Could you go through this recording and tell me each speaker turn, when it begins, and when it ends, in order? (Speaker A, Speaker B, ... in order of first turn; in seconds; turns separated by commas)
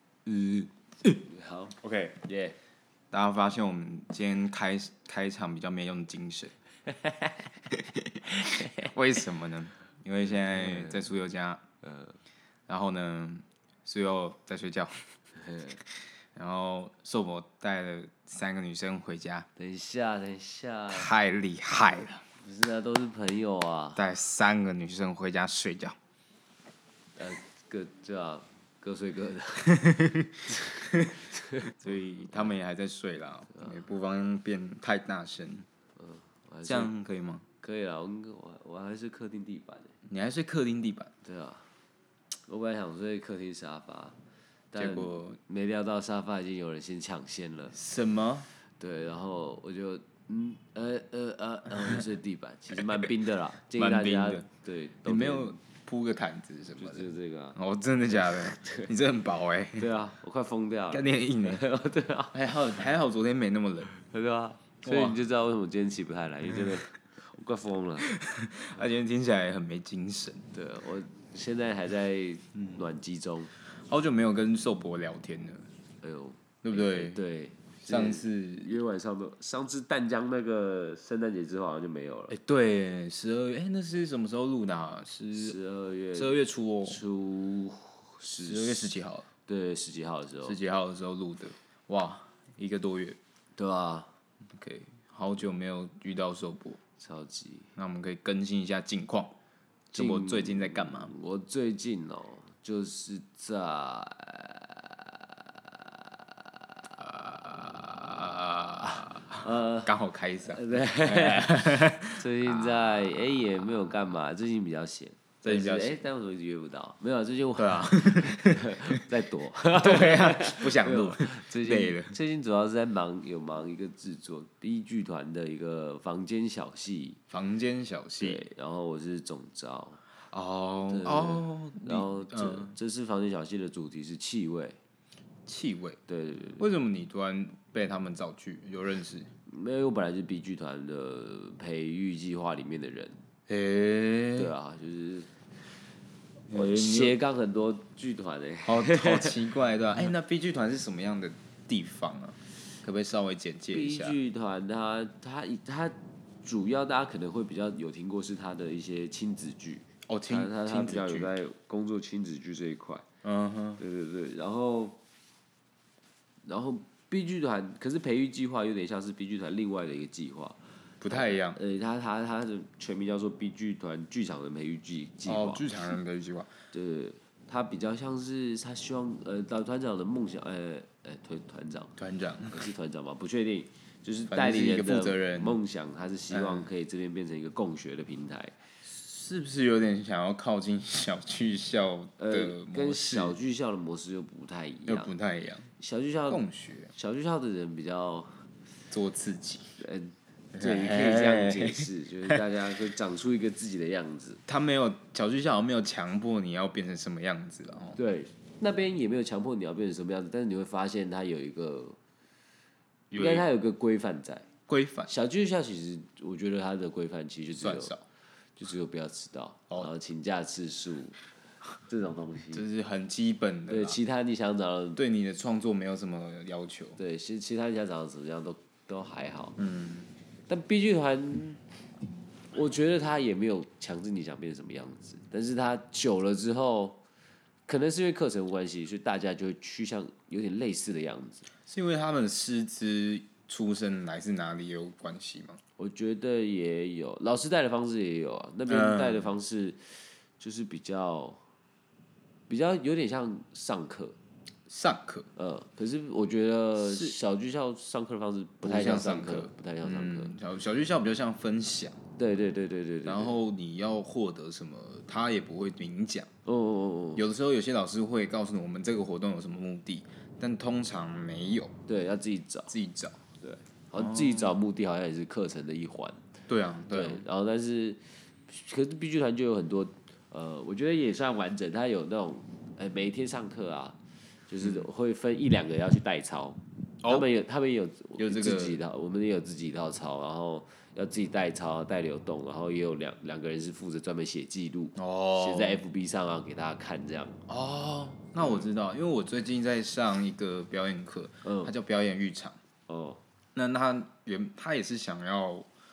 Speaker A: 1.2-1.8, Speaker B: 1.8-2.2, Speaker A: 2.2-2.5, Speaker B: 3.1-6.5, Speaker A: 6.9-7.3, Speaker B: 7.7-11.6, Speaker A: 8.3-8.9, Speaker A: 10.6-11.0, Speaker A: 11.8-12.1, Speaker B: 12.7-15.1, Speaker A: 15.4-15.8, Speaker B: 16.3-19.5, Speaker A: 19.6-21.1, Speaker B: 20.9-22.2, Speaker A: 22.4-24.0, Speaker B: 23.9-25.9, Speaker A: 27.2-29.8, Speaker B: 29.6-31.1, Speaker A: 30.5-31.7, Speaker B: 31.6-35.6, Speaker A: 36.0-36.9, Speaker B: 36.6-37.4, Speaker A: 37.6-39.9, Speaker B: 40.0-41.1, Speaker A: 41.2-41.6, Speaker A: 42.5-44.1, Speaker A: 44.7-47.8, Speaker B: 44.8-45.4, Speaker B: 47.7-48.5, Speaker A: 48.8-55.5, Speaker B: 52.7-53.1, Speaker B: 53.7-54.5, Speaker B: 55.0-59.9, Speaker A: 56.8-57.6, Speaker A: 58.2-58.9, Speaker A: 59.8-62.4, Speaker B: 60.9-61.6, Speaker B: 62.3-63.9, Speaker A: 64.0-68.1, Speaker B: 64.8-65.2, Speaker B: 68.0-70.5, Speaker A: 70.5-73.5, Speaker B: 73.7-75.7, Speaker A: 76.0-82.3, Speaker B: 76.6-77.2, Speaker B: 77.8-78.7, Speaker B: 82.3-85.5, Speaker A: 85.3-86.3, Speaker B: 86.1-87.0, Speaker A: 86.8-88.9, Speaker B: 88.4-89.2, Speaker A: 89.5-90.5, Speaker B: 90.4-93.2, Speaker A: 93.5-94.1, Speaker B: 94.5-96.8, Speaker A: 97.0-97.7, Speaker B: 97.8-99.3, Speaker B: 99.9-101.1, Speaker A: 99.9-106.5, Speaker B: 107.0-113.2, Speaker A: 109.3-109.9, Speaker A: 110.5-127.2, Speaker B: 115.4-116.0, Speaker B: 117.5-119.0, Speaker B: 119.7-122.1, Speaker B: 127.3-128.4, Speaker A: 128.2-130.0, Speaker B: 130.3-132.7, Speaker A: 130.9-134.8, Speaker B: 135.4-136.0, Speaker A: 136.1-136.6, Speaker B: 136.6-139.3, Speaker A: 139.5-143.2, Speaker B: 143.5-144.5, Speaker A: 144.3-145.3, Speaker B: 146.5-147.2, Speaker A: 146.5-149.4, Speaker B: 148.6-154.2, Speaker A: 153.7-163.0, Speaker B: 160.1-161.3, Speaker B: 163.2-163.8, Speaker A: 163.8-165.0, Speaker A: 166.4-170.6, Speaker B: 171.0-171.6, Speaker A: 171.1-175.7, Speaker B: 175.2-176.5, Speaker A: 176.7-181.9, Speaker B: 182.0-182.7, Speaker A: 182.5-188.5, Speaker B: 184.3-185.6, Speaker B: 186.3-186.7, Speaker B: 188.8-193.3, Speaker A: 192.2-195.1, Speaker B: 194.8-195.7, Speaker A: 195.8-196.4, Speaker B: 196.3-196.9, Speaker A: 196.9-198.3, Speaker B: 198.9-199.7, Speaker A: 199.8-204.4, Speaker B: 200.5-202.4, Speaker B: 204.5-208.0, Speaker A: 207.9-212.0, Speaker B: 213.1-213.5, Speaker A: 213.2-214.5, Speaker B: 214.7-215.1, Speaker A: 215.1-217.9, Speaker B: 217.6-218.0, Speaker A: 218.6-221.2, Speaker A: 221.8-222.7, Speaker B: 222.5-224.0, Speaker A: 223.7-225.0, Speaker B: 224.9-227.0, Speaker A: 227.0-229.6, Speaker B: 229.6-230.1, Speaker A: 230.5-231.6, Speaker A: 232.5-237.0, Speaker A: 237.7-241.4, Speaker B: 241.7-245.6, Speaker A: 245.8-249.8, Speaker B: 248.7-249.3, Speaker A: 250.4-251.4, Speaker A: 252.5-254.2, Speaker B: 254.7-255.3, Speaker A: 255.3-260.3, Speaker B: 256.8-257.1, Speaker B: 258.6-262.0, Speaker A: 262.2-263.3, Speaker B: 263.0-266.3, Speaker A: 266.4-267.2, Speaker B: 267.1-271.7, Speaker A: 271.9-272.7, Speaker B: 272.7-273.2, Speaker A: 273.4-276.2, Speaker B: 273.9-274.6, Speaker B: 276.5-277.2, Speaker A: 276.9-284.0, Speaker A: 284.5-297.4, Speaker B: 284.6-284.9, Speaker B: 288.2-288.8, Speaker B: 294.9-295.8, Speaker B: 297.5-302.6, Speaker A: 298.4-298.6, Speaker A: 301.4-301.7, Speaker A: 302.9-303.2, Speaker B: 303.5-305.7